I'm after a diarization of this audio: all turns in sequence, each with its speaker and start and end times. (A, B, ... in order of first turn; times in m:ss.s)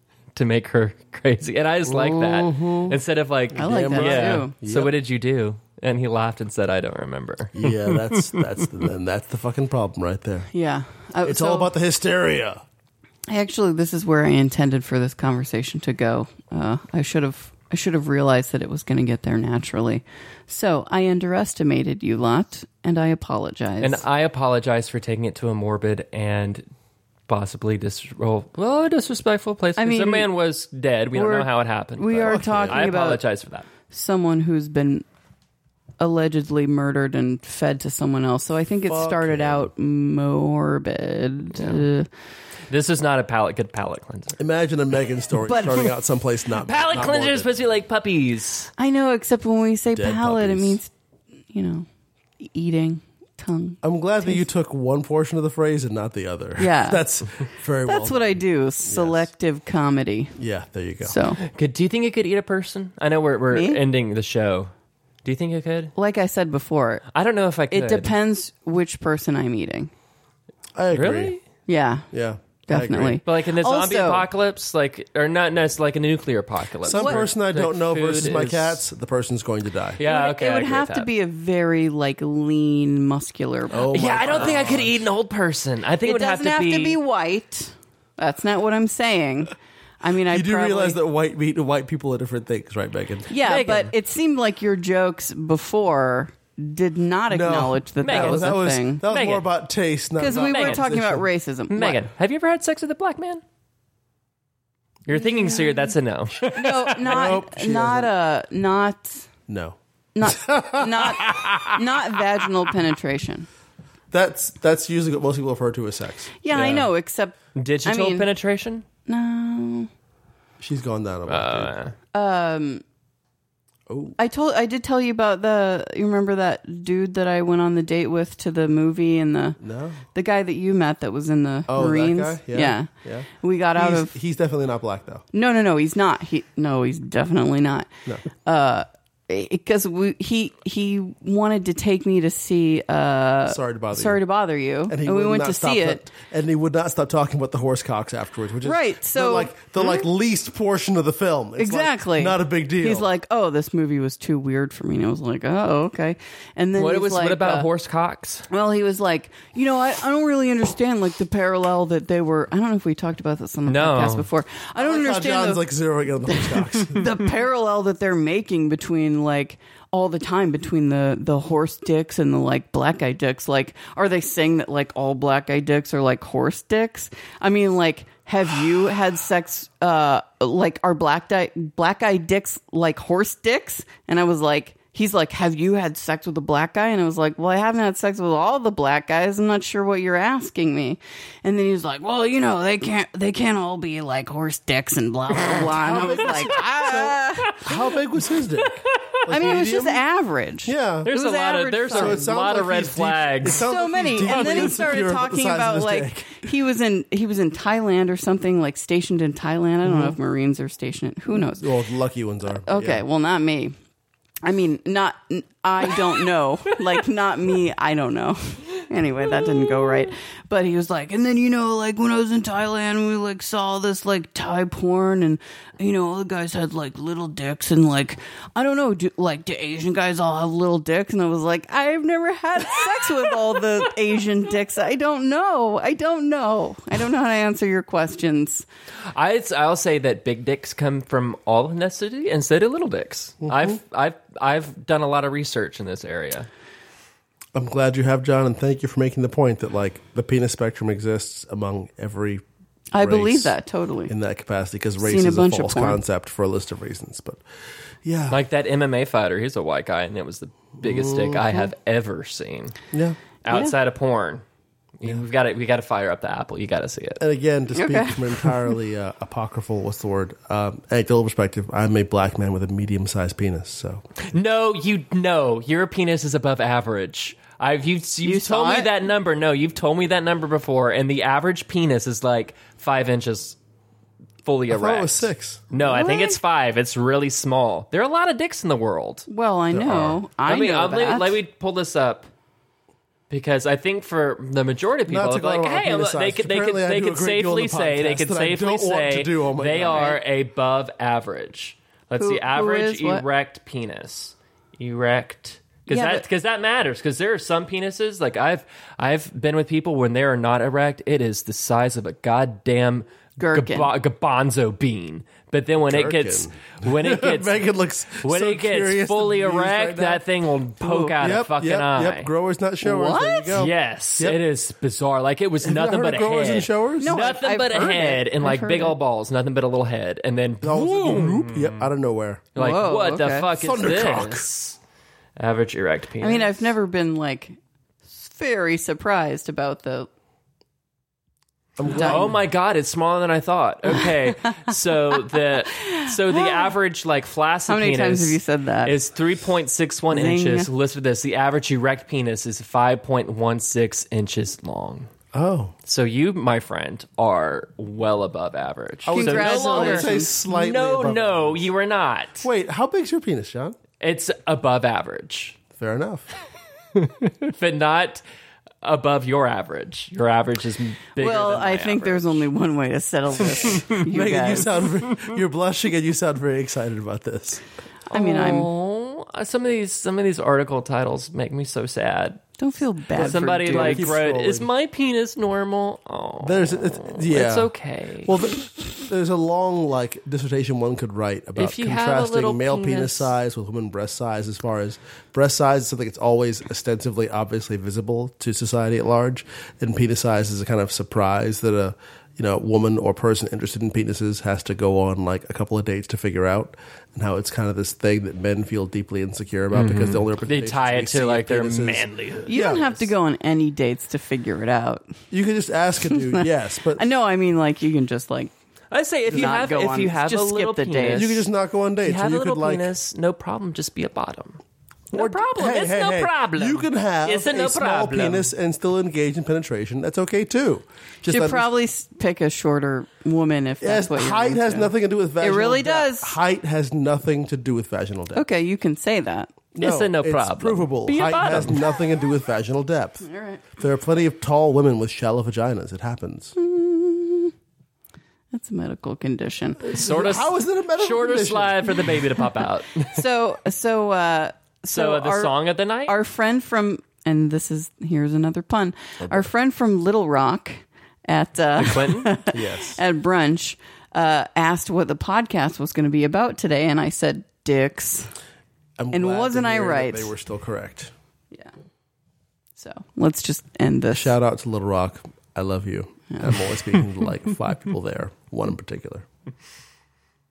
0:00.3-0:08.4 A
0:01.8-0:03.0 B
0:03.5-0:04.9 B
0:03.6-0:04.5 C
0:07.5-0:10.5 B
0:10.5-0:11.7 C
0:11.2-0:12.6 B
0:13.3-0:24.0 C
0:23.8-0:26.6 A
0:27.3-0:33.7 A
0:29.8-0:30.3 C
0:31.1-0:33.2 C
0:32.2-0:32.9 B
0:33.9-0:35.0 C
0:36.0-0:42.1 C
0:38.9-0:39.7 B
0:41.5-0:41.8 A
0:42.7-0:44.4 A
0:44.4-0:47.5 B
0:45.5-0:45.9 C
0:46.6-0:48.7 A
0:48.8-0:50.9 C
0:49.9-0:50.8 B
0:51.5-0:51.9 C
0:52.4-0:54.4 C
0:53.8-0:59.3 B
0:56.6-0:57.0 C
0:57.8-1:00.4 C
1:00.4-1:01.1 B
1:01.0-1:01.4 C
1:01.4-1:04.7 A
1:03.5-1:03.8 C
1:05.2-1:05.9 A
1:06.0-1:07.0 C
1:07.1-1:08.1 A
1:07.7-1:09.9 C
1:10.8-1:11.3 B
1:10.9-1:11.4 A
1:11.7-1:12.1 C
1:12.1-1:13.2 B
1:12.7-1:14.2 C
1:13.2-1:18.8 A
1:16.8-1:20.0 B
1:17.0-1:17.2 C
1:20.0-1:21.1 A
1:20.0-1:24.7 C
1:23.7-1:25.0 B
1:23.9-1:27.0 A
1:26.0-1:31.0 C
1:30.3-1:33.3 B
1:33.3-1:39.0 C
1:33.4-1:33.9 A
1:37.3-1:41.3 B
1:38.0-1:39.4 A
1:40.2-1:42.0 C
1:40.3-1:40.8 A
1:41.7-1:43.4 A
1:45.0-1:47.0 A
1:45.1-1:45.8 C
1:46.4-1:49.3 C
1:47.0-1:48.1 B
1:49.5-1:52.5 B
1:50.1-1:53.5 C
1:54.1-1:56.8 B
1:56.4-1:58.3 C
1:57.6-1:58.8 A
1:59.1-1:59.9 C
2:00.6-2:01.7 B
2:01.3-2:01.9 A
2:02.1-2:02.8 C
2:03.9-2:04.2 B
2:04.2-2:09.6 C
2:09.6-2:10.0 B
2:10.1-2:12.9 C
2:11.7-2:15.2 B
2:13.4-2:14.1 C
2:15.3-2:17.9 C
2:18.4-2:26.0 C
2:23.5-2:24.2 B
2:24.9-2:33.1 B
2:28.6-2:30.0 C
2:31.6-2:37.7 C
2:36.8-2:38.4 A
2:38.5-2:45.6 C
2:43.7-2:44.2 A
2:44.8-2:47.1 B
2:46.3-3:17.8 C
3:15.6-3:20.0 B
3:19.3-3:22.3 C
3:20.6-3:21.1 B
3:21.0-3:23.6 A
3:21.9-3:26.5 B
3:23.5-3:31.6 C
3:24.2-3:24.8 A
3:29.8-3:30.2 B
3:31.3-3:33.0 B
3:32.6-3:33.7 C
3:34.4-3:58.6 C
3:59.1-4:06.5 A
4:07.5-4:12.4 B
4:12.9-4:14.1 C
4:13.0-4:13.5 B
4:14.1-4:17.4 B
4:15.0-4:16.0 C
4:18.0-4:18.4 B
4:18.3-4:22.8 A
4:20.8-4:21.6 B
4:22.9-4:23.2 B
4:23.4-4:24.4 A
4:25.0-4:27.2 A
4:27.2-4:34.0 B
4:27.7-4:28.6 C
4:34.2-4:43.6 A
4:38.2-4:38.9 C
4:44.4-4:49.3 A
4:44.7-4:45.6 B
4:45.8-4:46.4 C
4:49.3-4:51.4 C
4:49.7-4:50.2 B
4:50.4-4:52.3 A
4:53.3-5:17.6 A
4:55.1-5:00.1 B
4:59.9-5:00.2 C
5:02.2-5:03.2 C
5:05.9-5:06.2 C
5:13.4-5:13.9 C
5:15.9-5:20.2 B
5:18.2-5:22.3 A
5:20.8-5:21.1 C
5:21.2-5:24.4 B
5:22.8-5:23.6 C
5:23.5-5:31.9 A
5:25.6-5:27.1 B
5:27.0-5:29.0 C
5:30.6-5:32.5 B
5:32.5-5:33.5 C
5:32.5-5:34.8 A
5:33.6-5:34.4 B
5:35.4-5:36.5 A
5:36.2-5:37.6 C
5:38.1-5:40.1 C
5:41.8-5:42.3 B
5:41.9-5:55.1 A
5:41.9-5:42.3 C
5:46.2-5:46.7 C
5:47.7-5:49.0 C
5:50.1-5:50.7 C
5:55.3-5:55.7 B
5:55.9-6:02.5 A
5:59.0-6:01.7 B
5:59.1-6:00.4 C
6:02.4-6:03.8 B
6:04.0-6:05.6 A
6:05.7-6:06.2 B
6:07.0-6:08.2 A
6:08.8-6:12.4 A
6:11.2-6:14.8 C
6:13.6-6:17.6 B
6:18.1-6:22.4 A
6:18.1-6:18.7 C
6:22.6-6:24.1 C
6:23.2-6:28.4 A
6:23.2-6:24.7 B
6:26.4-6:27.7 B
6:28.2-6:53.0 B
6:31.6-6:33.3 A
6:49.7-6:52.6 A
6:52.5-6:55.1 C
6:55.3-6:57.0 B
6:56.1-6:58.5 C
6:58.9-7:01.4 A
6:59.3-7:01.4 C
6:59.3-6:59.6 B
7:01.1-7:02.9 B
7:02.0-7:04.6 A
7:05.1-7:08.5 A
7:05.1-7:11.6 B
7:11.3-7:16.4 C
7:13.8-7:18.4 B
7:18.3-7:19.5 C
7:19.7-7:26.5 B
7:19.8-7:21.9 A
7:23.2-7:23.7 C
7:26.6-7:27.5 C
7:28.5-7:29.9 C
7:29.8-7:32.0 B
7:29.9-7:33.2 A
7:33.1-7:48.3 C
7:34.9-7:36.2 A
7:39.2-7:39.5 B
7:41.8-7:42.4 A
7:42.5-7:43.0 B
7:49.0-7:51.1 B
7:49.1-7:50.3 C
7:52.8-7:54.3 C
7:54.1-7:59.2 B
7:56.3-7:56.7 C